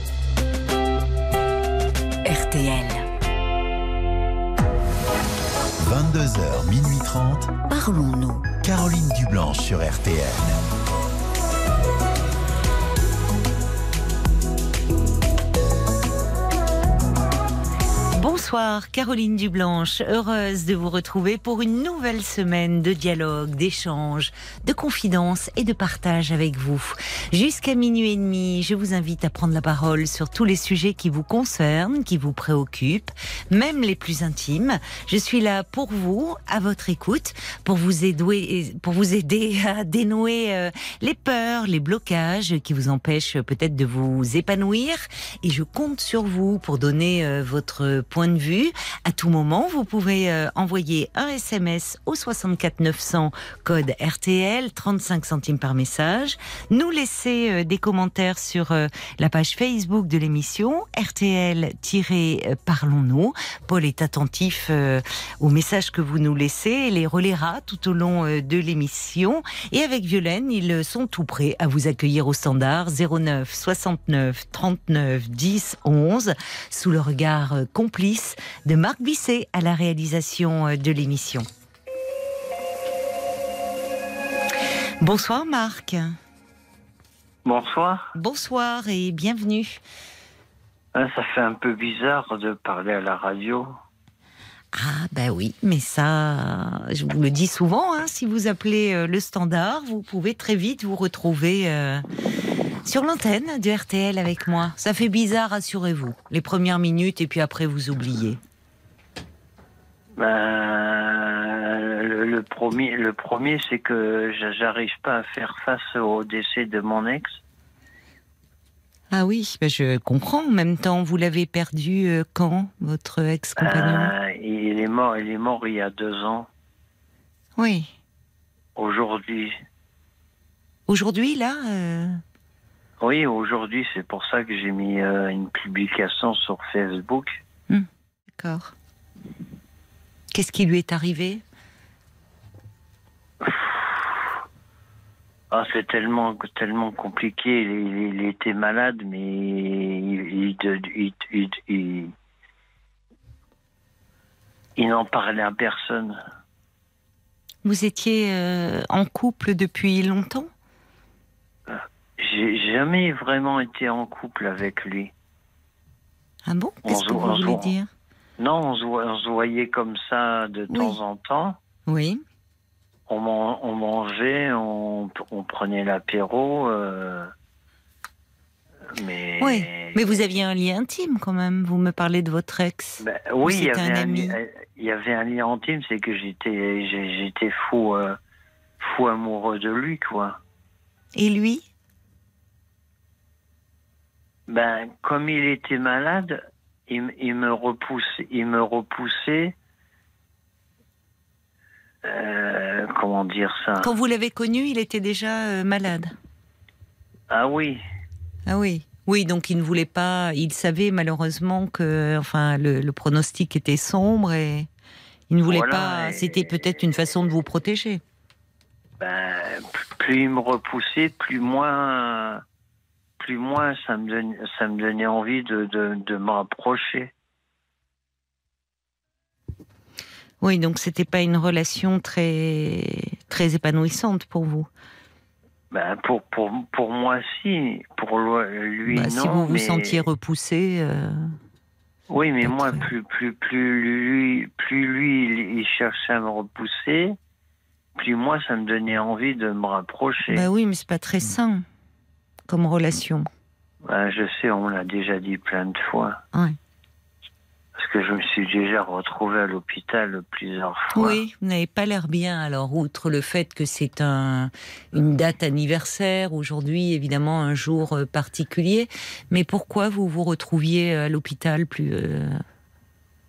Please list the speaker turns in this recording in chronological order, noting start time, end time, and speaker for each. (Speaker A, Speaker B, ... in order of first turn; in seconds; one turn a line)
Speaker A: 2.2-3.0
Speaker B: 5.8-7.6
Speaker A: 7.7-8.5
Speaker B: 8.6-10.6
Speaker A: 18.1-81.5
Speaker A: 85.0-86.2
Speaker C: 87.5-88.1
Speaker A: 88.2-89.8
Speaker C: 90.9-93.7
Speaker A: 94.7-102.0
Speaker A: 102.8-108.4
Speaker C: 110.2-117.4
Speaker A: 119.1-124.1
Speaker C: 123.6-126.5
Speaker A: 127.6-127.9
Speaker C: 128.8-129.6
Speaker A: 130.9-132.2
Speaker C: 133.0-137.4
Speaker A: 137.7-138.7
Speaker A: 140.3-141.4
Speaker C: 143.4-144.2
Speaker C: 145.5-152.1
Speaker C: 154.8-156.2
Speaker A: 157.7-160.5
Speaker C: 161.7-165.1
Speaker A: 166.5-167.9
Speaker C: 166.8-167.7
Speaker C: 168.4-171.6
Speaker A: 170.7-171.0
Speaker A: 171.9-172.2
Speaker C: 173.1-177.3
Speaker C: 178.9-180.3
Speaker A: 179.4-184.4
Speaker C: 183.0-188.2
Speaker C: 188.8-190.4
Speaker A: 191.2-191.6
Speaker C: 194.5-199.6
Speaker C: 202.0-203.9
Speaker A: 203.8-206.1
Speaker C: 207.3-207.8
Speaker A: 208.5-214.7
Speaker A: 215.3-218.0
Speaker C: 215.5-216.9
Speaker C: 219.0-222.4
Speaker C: 223.2-227.1
Speaker A: 230.4-234.7
Speaker C: 235.7-240.1
Speaker A: 238.9-241.3
Speaker C: 242.1-247.2
Speaker A: 242.4-242.9
Speaker C: 248.0-250.5
Speaker A: 250.3-251.7
Speaker A: 252.5-253.3
Speaker C: 253.8-256.2
Speaker C: 257.8-261.2
Speaker A: 260.9-272.4